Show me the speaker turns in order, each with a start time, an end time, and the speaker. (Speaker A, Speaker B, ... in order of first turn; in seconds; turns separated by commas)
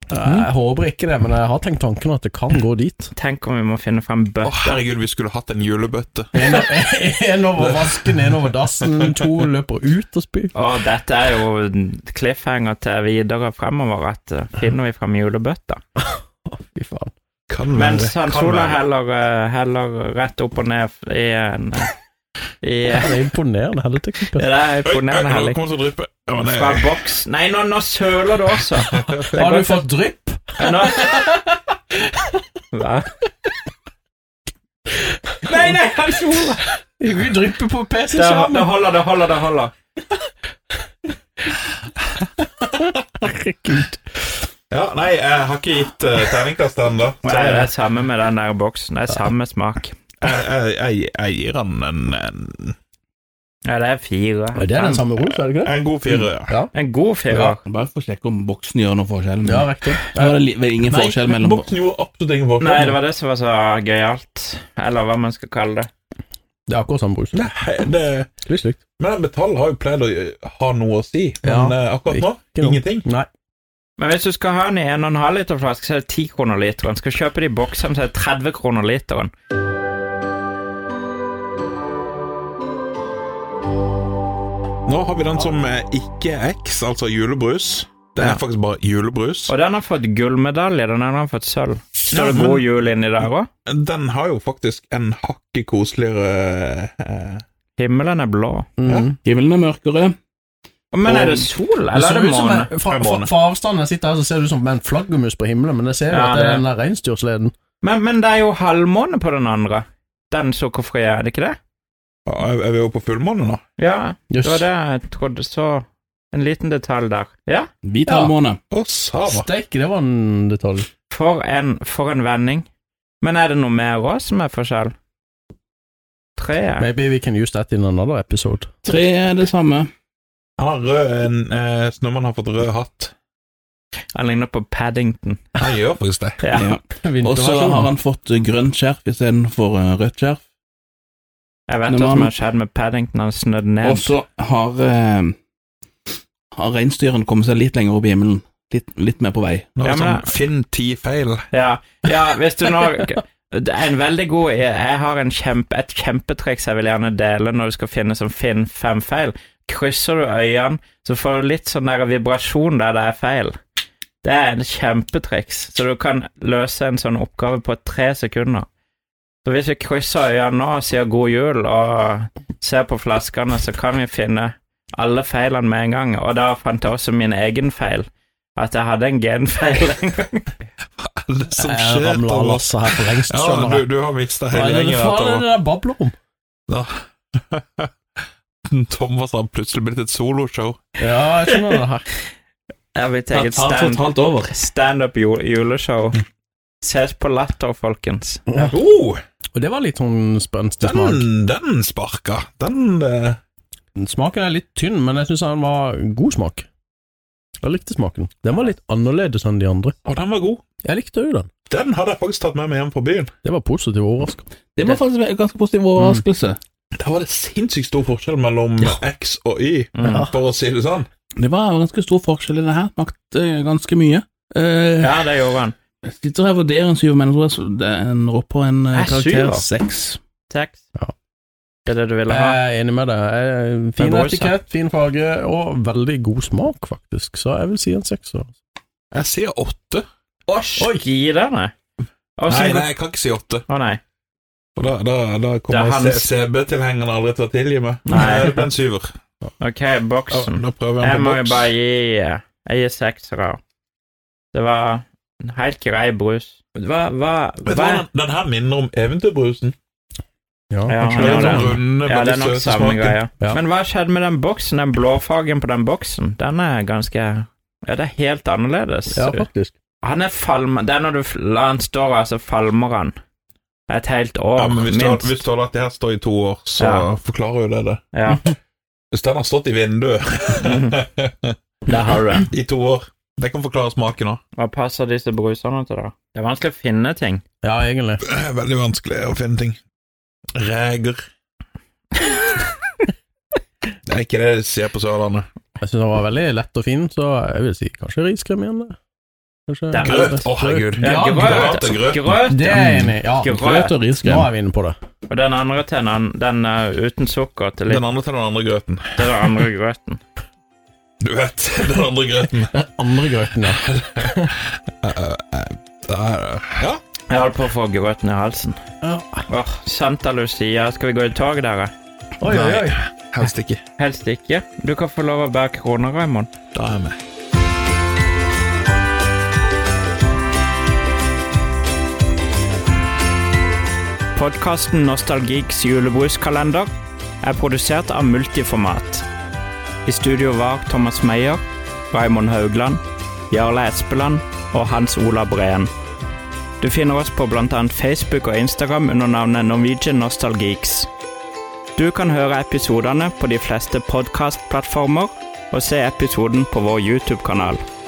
Speaker A: 0.1-3.1, Speaker B: 3.1-4.8, Speaker C: 4.4-6.6, Speaker A: 6.3-10.5, Speaker C: 7.6-9.2, Speaker B: 10.5-15.8, Speaker A: 16.0-17.1, Speaker C: 17.5-18.8, Speaker B: 17.7-21.9, Speaker B: 22.6-23.2, Speaker A: 22.9-24.5, Speaker B: 24.4-25.6, Speaker C: 24.9-26.9, Speaker B: 26.4-29.9, Speaker C: 28.8-29.3, Speaker A: 29.3-32.4, Speaker B: 30.6-31.1, Speaker B: 32.7-33.1, Speaker A: 35.1-35.8, Speaker B: 35.5-36.6, Speaker A: 36.3-38.7, Speaker B: 38.1-39.7, Speaker A: 42.6-44.3, Speaker C: 44.7-47.5, Speaker B: 47.2-50.0, Speaker A: 47.2-47.7, Speaker C: 50.2-52.8, Speaker B: 53.7-55.0, Speaker A: 54.5-56.7, Speaker C: 55.5-56.6, Speaker B: 56.7-57.6, Speaker D: 57.3-61.7, Speaker A: 59.4-60.4, Speaker C: 60.9-63.0, Speaker B: 62.6-65.9, Speaker A: 66.7-67.4, Speaker C: 67.3-68.3, Speaker A: 68.5-68.8, Speaker C: 69.0-73.0, Speaker A: 71.4-73.3, Speaker B: 74.0-79.3, Speaker C: 84.9-89.5, Speaker B: 89.5-93.5, Speaker C: 92.1-92.7, Speaker C: 93.7-97.4, Speaker B: 97.8-98.7, Speaker A: 98.8-99.2, Speaker D: 99.2-100.2, Speaker B: 100.9-102.7, Speaker D: 101.1-101.4, Speaker A: 101.9-107.5, Speaker C: 102.0-103.3, Speaker B: 106.1-106.7, Speaker B: 107.8-111.6, Speaker C: 112.3-113.6, Speaker B: 113.8-117.7, Speaker A: 114.3-114.7, Speaker D: 117.8-118.6, Speaker A: 118.1-118.3, Speaker C: 118.7-119.5, Speaker A: 119.3-120.9, Speaker B: 121.1-122.7, Speaker B: 123.2-124.9, Speaker B: 126.4-126.9, Speaker A: 126.8-128.9, Speaker D: 128.8-129.9, Speaker C: 130.6-133.1, Speaker B: 134.2-135.4, Speaker C: 135.6-136.5, Speaker B: 136.4-136.7, Speaker D: 136.5-140.4, Speaker A: 136.9-137.9, Speaker B: 141.7-144.1, Speaker D: 141.9-142.3, Speaker D: 143.8-145.3, Speaker D: 146.5-149.7, Speaker C: 149.8-151.5, Speaker B: 149.8-150.3, Speaker B: 151.5-163.6, Speaker B: 164.2-168.7, Speaker B: 169.4-180.5, Speaker C: 181.0-185.5, Speaker A: 181.6-183.9, Speaker A: 184.5-186.2, Speaker C: 186.7-187.9, Speaker C: 188.7-190.8, Speaker A: 191.0-192.1, Speaker B: 192.9-196.2, Speaker D: 193.3-194.5, Speaker B: 196.8-198.4, Speaker A: 198.5-198.8, Speaker C: 198.7-199.2, Speaker A: 199.6-201.3, Speaker C: 200.8-203.4, Speaker A: 204.0-206.7, Speaker A: 207.6-209.9, Speaker C: 210.1-210.6, Speaker A: 210.8-211.5, Speaker C: 211.7-213.3, Speaker A: 213.4-215.0, Speaker D: 214.8-216.6, Speaker A: 216.0-216.2, Speaker C: 217.0-221.1, Speaker B: 219.9-220.3, Speaker A: 220.0-220.3, Speaker D: 221.4-225.3, Speaker B: 225.0-225.8, Speaker D: 226.1-230.2, Speaker B: 228.9-229.7, Speaker B: 230.5-230.8, Speaker B: 231.9-232.6, Speaker A: 232.3-238.5, Speaker B: 234.0-234.5, Speaker C: 239.1-240.1, Speaker B: 240.5-241.7, Speaker B: 242.4-242.9, Speaker C: 242.5-243.7, Speaker B: 243.7-244.0, Speaker C: 244.8-249.1, Speaker B: 245.7-246.3, Speaker B: 248.1-248.6, Speaker B: 249.6-253.6, Speaker C: 250.3-251.7, Speaker B: 254.5-258.0, Speaker C: 257.7-259.8, Speaker A: 260.7-261.8, Speaker B: 260.9-269.5, Speaker C: 261.1-263.2, Speaker A: 269.1-269.8, Speaker B: 270.0-273.1, Speaker B: 273.9-275.4, Speaker C: 274.6-278.0, Speaker B: 276.8-277.1, Speaker B: 278.1-278.4, Speaker C: 279.1-281.6, Speaker B: 280.6-281.0, Speaker B: 281.9-282.5, Speaker C: 282.5-284.4, Speaker B: 284.6-287.4, Speaker A: 287.6-288.2, Speaker C: 288.2-289.8, Speaker C: 290.6-291.2, Speaker C: 294.1-295.5, Speaker A: 295.8-298.9, Speaker A: 299.7-301.8, Speaker B: 299.9-300.5, Speaker C: 300.0-302.4, Speaker B: 301.0-303.9, Speaker A: 302.5-305.0, Speaker D: 302.8-303.1, Speaker D: 304.2-304.5, Speaker B: 305.3-308.0, Speaker C: 307.9-309.4, Speaker B: 309.2-310.2, Speaker C: 311.2-312.7, Speaker A: 312.7-314.5, Speaker C: 313.7-317.0, Speaker B: 317.3-318.8, Speaker A: 319.0-319.4, Speaker B: 319.5-321.9, Speaker A: 322.4-323.0, Speaker C: 322.5-323.8, Speaker B: 324.0-326.5, Speaker C: 326.8-327.2, Speaker B: 334.4-336.9, Speaker B: 337.4-339.3, Speaker B: 340.1-345.9, Speaker B: 346.8-351.1, Speaker B: 352.0-357.8